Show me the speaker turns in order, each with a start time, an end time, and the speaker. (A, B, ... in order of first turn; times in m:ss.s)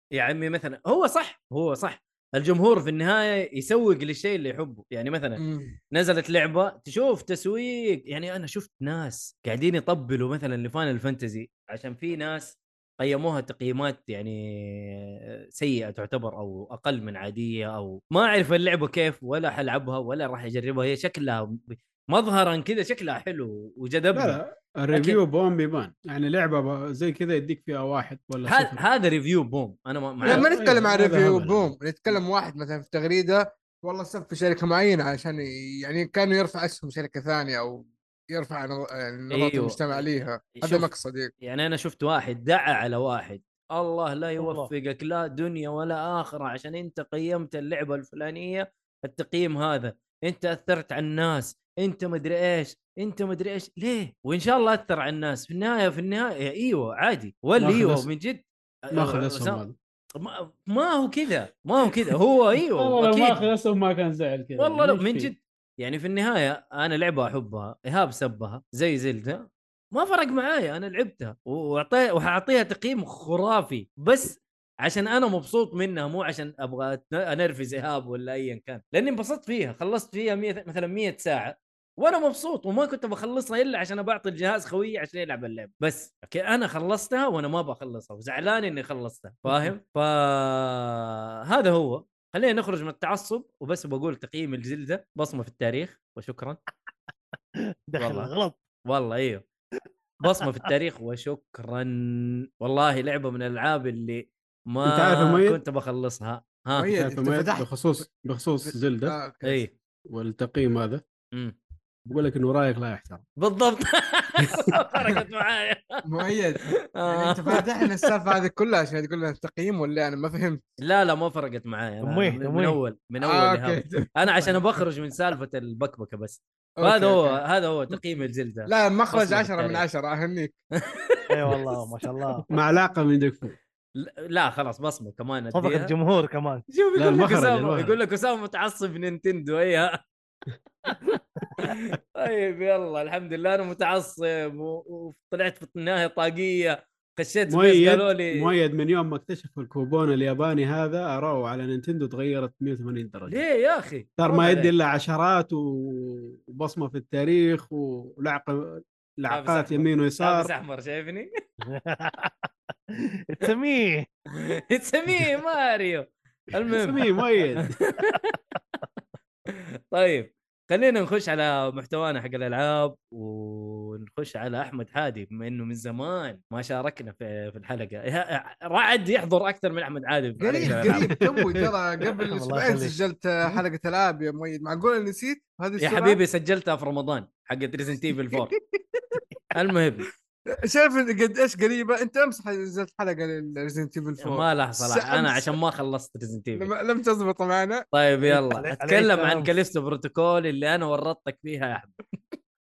0:00.2-0:05.4 A
0:05.4-0:05.8 B
0:05.9-0:24.4 A
0:24.1-0:28.8 C
0:24.9-0:25.2 A
0:28.4-0:30.5 A
0:30.2-0:41.3 B
0:30.3-0:31.7 C
0:39.3-0:40.0 A
0:40.6-0:40.9 A
0:41.4-0:59.6 A
0:44.4-0:44.7 D
0:57.6-0:58.1 C
0:58.9-0:59.8 C
1:00.2-1:03.4 A
1:02.7-1:05.3 C
1:04.6-1:36.6 A
1:37.9-1:38.6 D
1:38.0-1:38.3 A
1:38.9-1:39.4 A
1:40.2-1:46.9 A
1:44.8-1:45.6 C
1:46.8-1:48.0 B
1:47.0-1:49.2 C
1:48.6-1:49.7 B
1:49.4-1:49.7 A
1:50.1-1:51.0 C
1:52.1-1:53.2 C
1:53.4-1:56.0 A
1:54.9-1:55.2 C
1:56.0-2:00.6 B
1:57.0-1:57.6 A
2:00.8-2:09.9 A
2:02.0-2:02.8 D
2:03.2-2:04.8 B
2:06.8-2:07.4 B
2:08.7-2:10.6 B
2:10.8-2:11.6 A
2:11.3-2:12.5 D
2:12.5-2:13.6 C
2:14.0-2:15.9 A
2:15.6-2:16.6 D
2:16.7-2:20.0 A
2:17.0-2:18.0 C
2:20.9-2:28.5 A
2:27.5-2:33.4 C
2:33.3-2:34.7 A
2:34.2-2:40.5 C
2:39.3-2:41.3 A
2:41.7-2:42.5 D
2:43.3-2:44.1 D
2:44.4-2:47.0 A
2:46.7-2:47.7 C
2:47.8-2:48.4 A
2:49.9-3:01.1 A
3:00.4-3:06.2 B
3:00.9-3:01.6 C
3:02.3-3:03.0 D
3:05.8-3:08.6 A
3:08.3-3:09.2 B
3:09.5-3:10.1 A
3:10.7-3:15.5 B
3:14.2-3:16.7 A
3:16.6-3:17.8 B
3:17.9-3:22.0 A
3:18.3-3:19.5 D